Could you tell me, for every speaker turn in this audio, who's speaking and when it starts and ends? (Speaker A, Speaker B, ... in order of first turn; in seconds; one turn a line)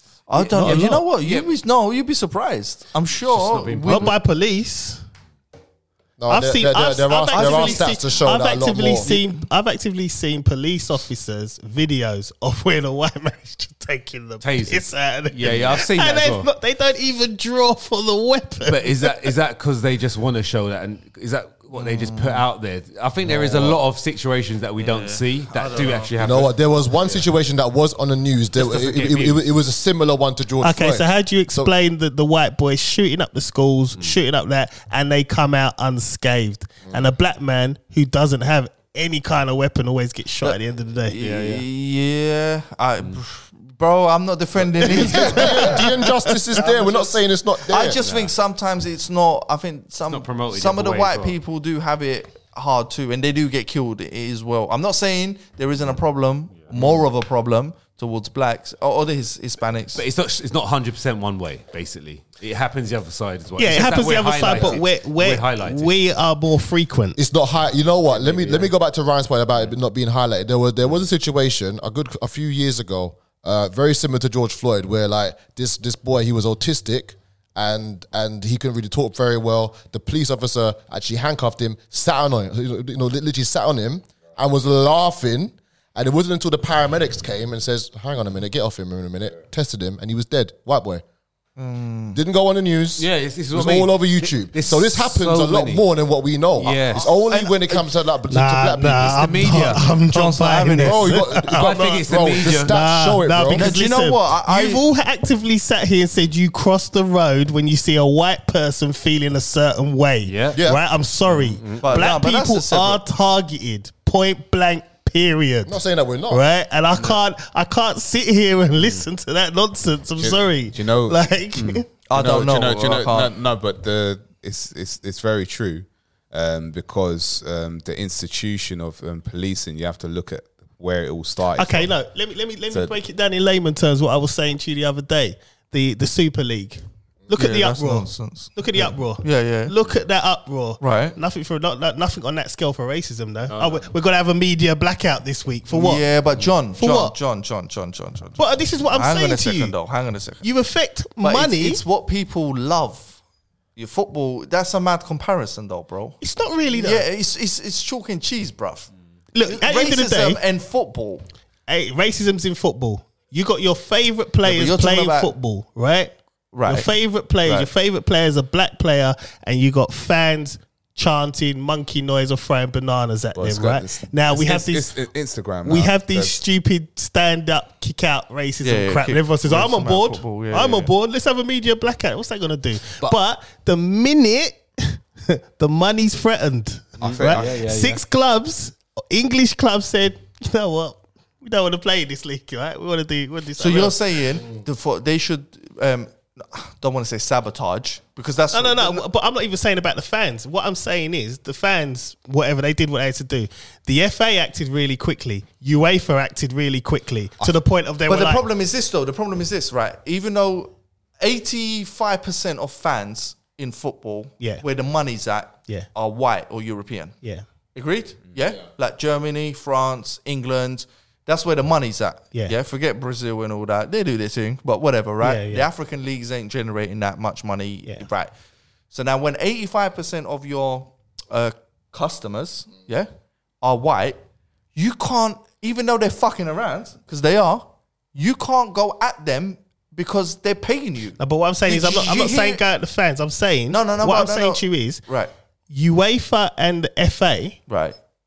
Speaker A: 0.3-4.1
Speaker B: 0.3-1.5
Speaker C: 0.6-1.0
Speaker B: 3.2-4.2
Speaker C: 3.9-5.0
Speaker D: 6.2-9.1
Speaker C: 6.3-19.3
Speaker A: 7.3-7.9
Speaker A: 9.1-9.3
Speaker B: 14.4-16.5
Speaker B: 18.6-26.5
Speaker A: 21.7-22.4
Speaker D: 23.3-23.8
Speaker A: 24.8-26.1
Speaker D: 26.2-31.7
Speaker B: 28.6-29.4
Speaker C: 30.6-41.2
Speaker A: 40.4-45.9
Speaker B: 41.2-41.6
Speaker C: 44.8-46.3
Speaker D: 44.8-48.0
Speaker A: 46.6-60.0
Speaker B: 48.0-48.3
Speaker B: 50.1-51.4
Speaker B: 59.9-65.9
Speaker C: 63.6-67.2
Speaker A: 64.5-64.8
Speaker D: 67.2-91.0
Speaker B: 68.1-68.7
Speaker A: 91.6-92.2
Speaker D: 92.1-99.7
Speaker B: 93.0-95.8
Speaker B: 96.6-97.1
Speaker A: 96.6-97.9
Speaker C: 98.3-101.7
Speaker B: 99.0-99.9
Speaker A: 99.9-101.2
Speaker D: 100.8-103.7
Speaker B: 101.5-102.7
Speaker C: 102.6-121.9
Speaker A: 103.5-104.8
Speaker B: 110.2-110.6
Speaker D: 110.5-110.8
Speaker B: 111.3-112.1
Speaker A: 111.8-113.0
Speaker D: 115.7-116.4
Speaker E: 120.2-131.9
Speaker A: 122.1-123.3
Speaker C: 131.6-146.0
Speaker A: 137.3-138.6
Speaker A: 139.2-139.7
Speaker A: 140.8-141.2
Speaker B: 143.5-143.8
Speaker A: 145.7-150.4
Speaker C: 146.8-147.1
Speaker C: 148.4-149.7
Speaker C: 150.4-151.8
Speaker A: 151.2-153.2
Speaker A: 153.8-158.9
Speaker C: 156.2-157.0
Speaker C: 159.3-160.4
Speaker A: 159.4-161.2
Speaker C: 161.7-166.1
Speaker A: 164.4-165.3
Speaker A: 166.5-166.9
Speaker C: 166.6-174.9
Speaker A: 167.4-167.7
Speaker E: 173.3-176.4
Speaker C: 175.6-194.0
Speaker A: 178.6-180.9
Speaker E: 187.0-187.6
Speaker B: 187.0-188.0
Speaker A: 193.6-199.0
Speaker C: 198.5-208.4
Speaker A: 208.1-217.2
Speaker A: 217.7-228.3
Speaker C: 225.2-225.7
Speaker A: 228.9-233.1
Speaker A: 233.6-234.2
Speaker A: 234.7-242.6
Speaker C: 241.2-245.0
Speaker A: 243.7-245.3
Speaker C: 245.7-247.6
Speaker A: 247.7-247.9